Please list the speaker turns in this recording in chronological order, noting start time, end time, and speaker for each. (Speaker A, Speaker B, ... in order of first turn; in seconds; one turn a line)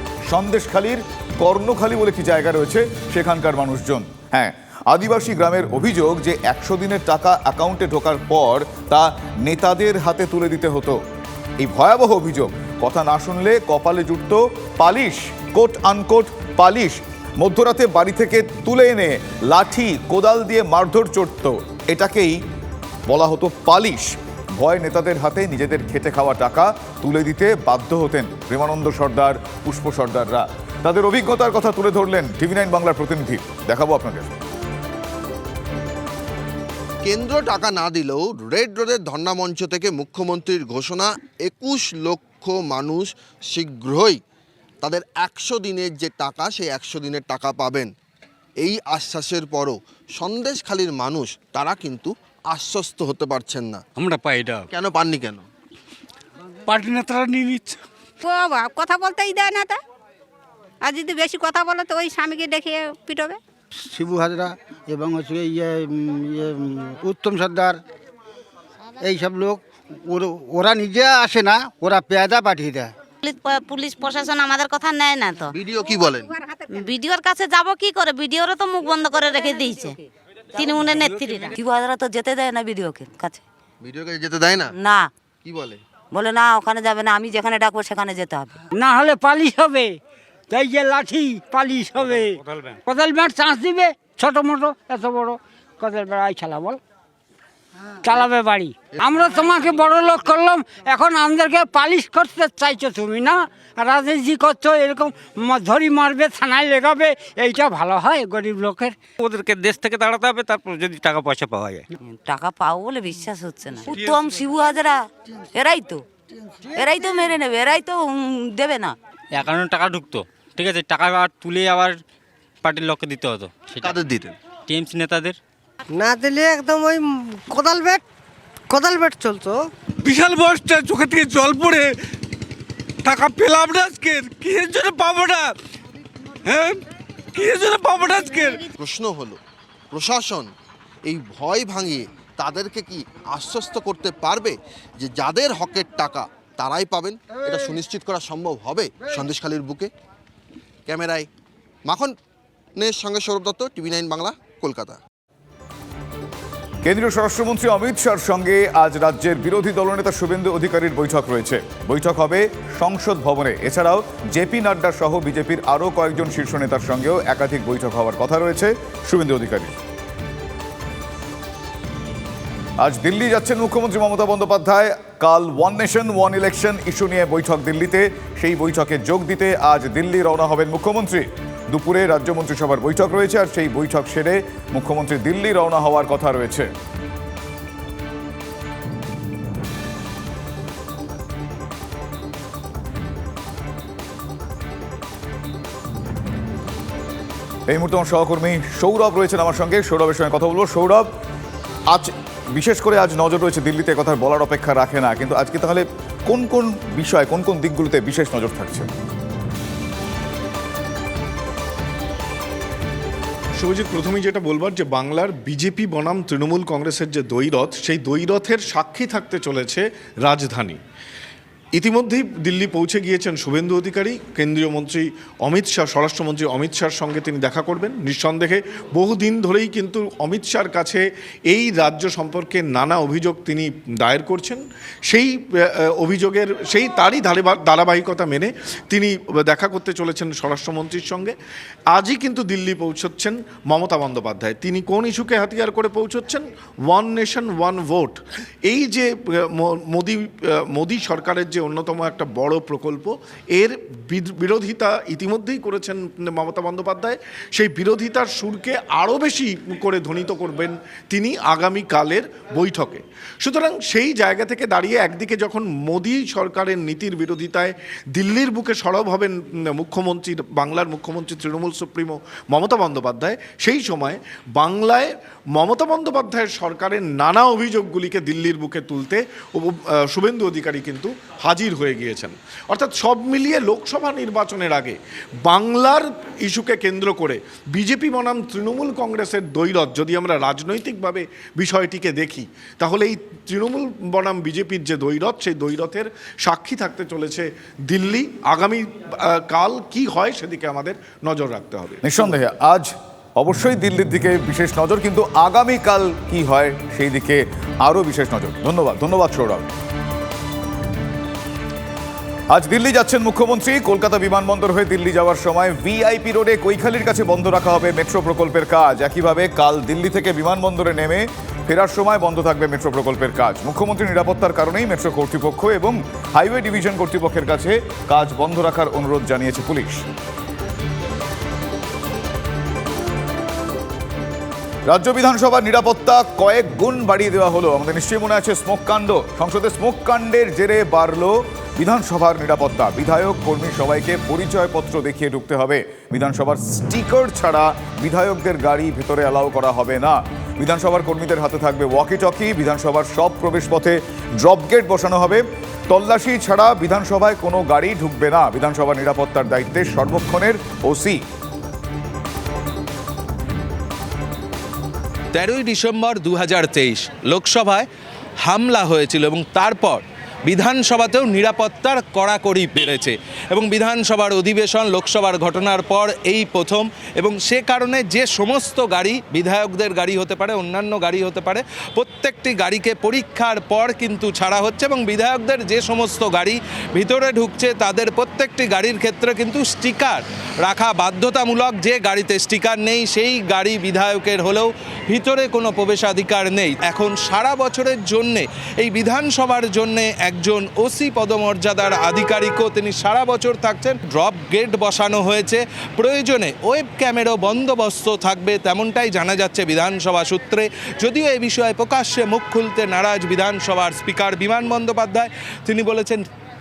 Speaker A: 0.3-11.0
Speaker A: 11.6-22.4
Speaker A: 23.1-34.4
Speaker B: 37.0-44.2
Speaker B: 44.8-47.9
Speaker B: 48.6-53.8
Speaker C: 54.0-54.6
Speaker B: 54.7-55.4
Speaker D: 56.7-57.8
Speaker E: 58.2-59.8
Speaker E: 60.8-63.4
Speaker F: 63.9-67.8
Speaker F: 69.0-72.9
Speaker G: 73.2-75.5
Speaker B: 75.5-76.3
Speaker E: 76.4-76.8
Speaker G: 76.8-80.0
Speaker G: 80.5-81.5
Speaker H: 81.5-83.4
Speaker B: 83.8-84.8
Speaker H: 84.8-85.1
Speaker B: 85.4-85.8
Speaker H: 86.1-88.5
Speaker I: 88.7-90.0
Speaker I: 90.5-96.8
Speaker I: 98.0-109.0
Speaker C: 109.2-111.9
Speaker H: 112.1-115.0
Speaker H: 115.5-116.0
Speaker H: 116.7-118.9
Speaker C: 119.3-122.0
Speaker C: 122.6-124.0
Speaker B: 123.8-124.3
Speaker C: 124.7-125.4
Speaker J: 126.0-128.0
Speaker J: 128.7-129.6
Speaker D: 130.0-131.9
Speaker D: 133.0-135.5
Speaker D: 136.5-136.8
Speaker D: 137.3-138.7
Speaker B: 138.8-139.4
Speaker B: 139.9-140.5
Speaker B: 141.1-149.9
Speaker B: 150.9-151.3
Speaker B: 151.9-152.1
Speaker B: 152.8-155.0
Speaker A: 156.8-169.8
Speaker A: 172.8-186.7
Speaker A: 197.7-201.1
Speaker A: 201.9-208.9
Speaker K: 213.6-220.8
Speaker K: 221.8-241.3
Speaker K: 241.9-302.1
Speaker A: 302.0-309.7
Speaker A: 312.5-330.1
Speaker A: 334.9-361.2
Speaker L: 365.3-367.9
Speaker L: 368.4-416.2